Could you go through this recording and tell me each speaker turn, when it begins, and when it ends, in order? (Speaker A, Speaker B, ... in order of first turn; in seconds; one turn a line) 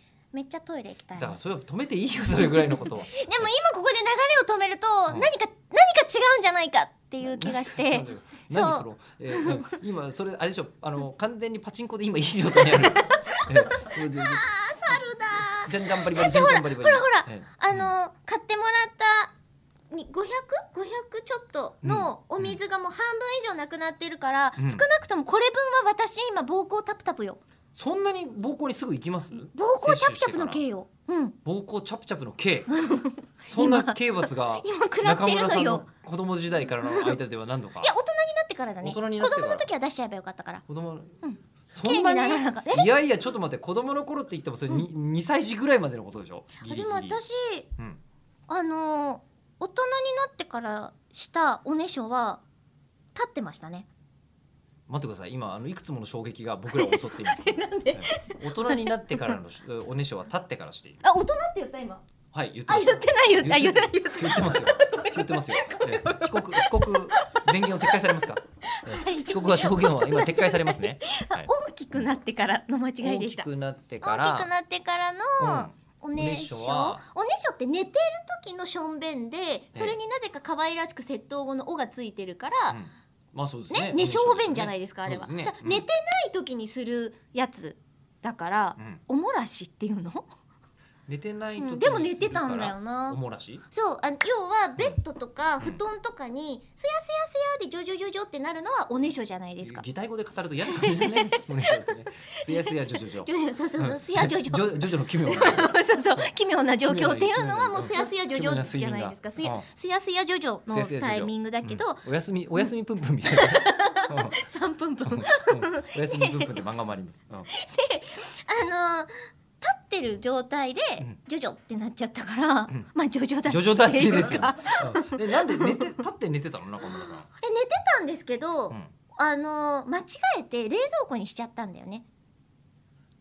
Speaker A: 0.3-1.4
Speaker B: 1.2-3.5
Speaker A: 2.6-9.8
Speaker B: 7.2-17.9
Speaker A: 12.6-19.3
Speaker A: 19.9-27.4
Speaker B: 21.8-22.6
Speaker B: 24.6-24.8
Speaker B: 27.7-30.6
Speaker A: 29.4-31.4
Speaker B: 31.4-32.8
Speaker A: 32.7-35.9
Speaker B: 33.5-37.9
Speaker A: 36.8-37.2
Speaker A: 37.8-40.6
Speaker B: 38.8-39.7
Speaker B: 40.7-47.2
Speaker A: 41.2-42.9
Speaker A: 46.6-47.7
Speaker A: 48.5-52.4
Speaker A: 53.1-53.9
Speaker B: 54.9-61.0
Speaker A: 56.7-59.4
Speaker A: 61.0-62.0
Speaker B: 62.3-72.1
Speaker A: 62.7-73.5
Speaker B: 73.0-74.5
Speaker A: 74.0-82.8
Speaker B: 75.4-77.0
Speaker B: 82.7-85.8
Speaker A: 83.7-90.3
Speaker B: 91.1-93.6
Speaker A: 91.6-93.2
Speaker A: 93.7-99.9
Speaker B: 99.6-106.3
Speaker A: 100.6-101.9
Speaker A: 102.5-112.0
Speaker B: 106.8-109.7
Speaker B: 110.7-114.4
Speaker A: 113.3-116.5
Speaker B: 115.0-117.5
Speaker A: 117.5-125.9
Speaker B: 123.5-127.3
Speaker A: 126.9-132.1